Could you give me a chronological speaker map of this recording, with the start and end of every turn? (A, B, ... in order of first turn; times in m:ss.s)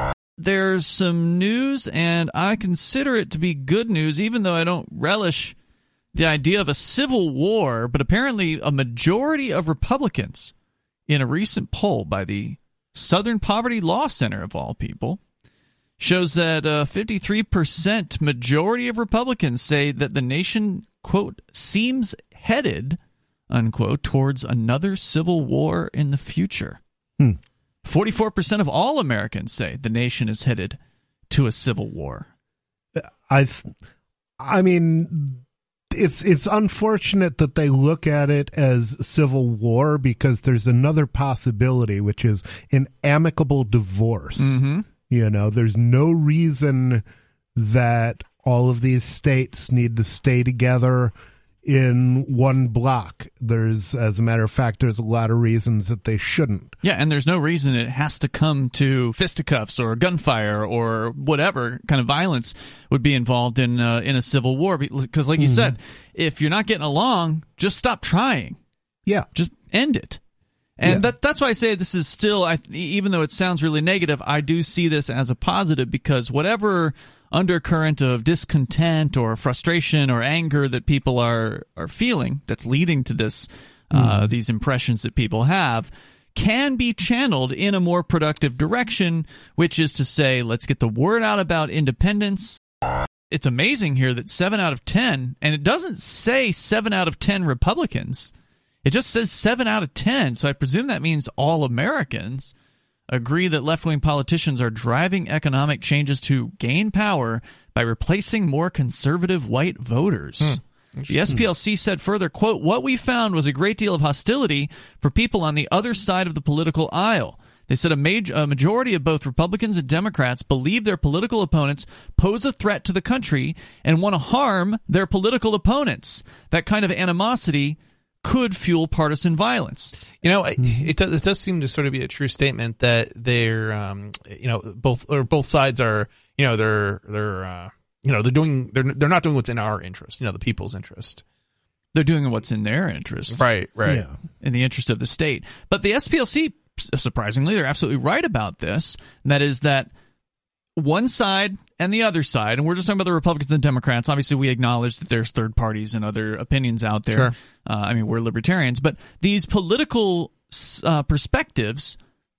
0:00.4-0:05.6 A
0:06.1-0:10.5 A
0:11.1-0:15.2 A
0:16.0-0:23.0 A
0:23.5-0:26.8 A
0:27.8-0:30.8 A
0:31.3-0:32.3 A
0:33.0-0:33.7 B
0:34.4-0:47.0 B
0:44.4-0:44.8 A
0:47.5-0:56.7 B
0:56.8-1:08.6 A
1:05.4-1:05.7 B
1:09.3-1:10.2 A
1:10.8-1:32.6 A
1:23.9-1:24.3 B
1:33.3-1:38.3 A
1:38.8-1:42.5 A
1:43.1-2:10.0 A
1:50.4-1:51.4 C
2:10.2-2:21.2 C
2:10.6-2:10.9 B
2:21.9-2:23.4 A
2:23.3-2:24.0 C
2:24.4-2:29.9 A
2:30.8-2:42.0 A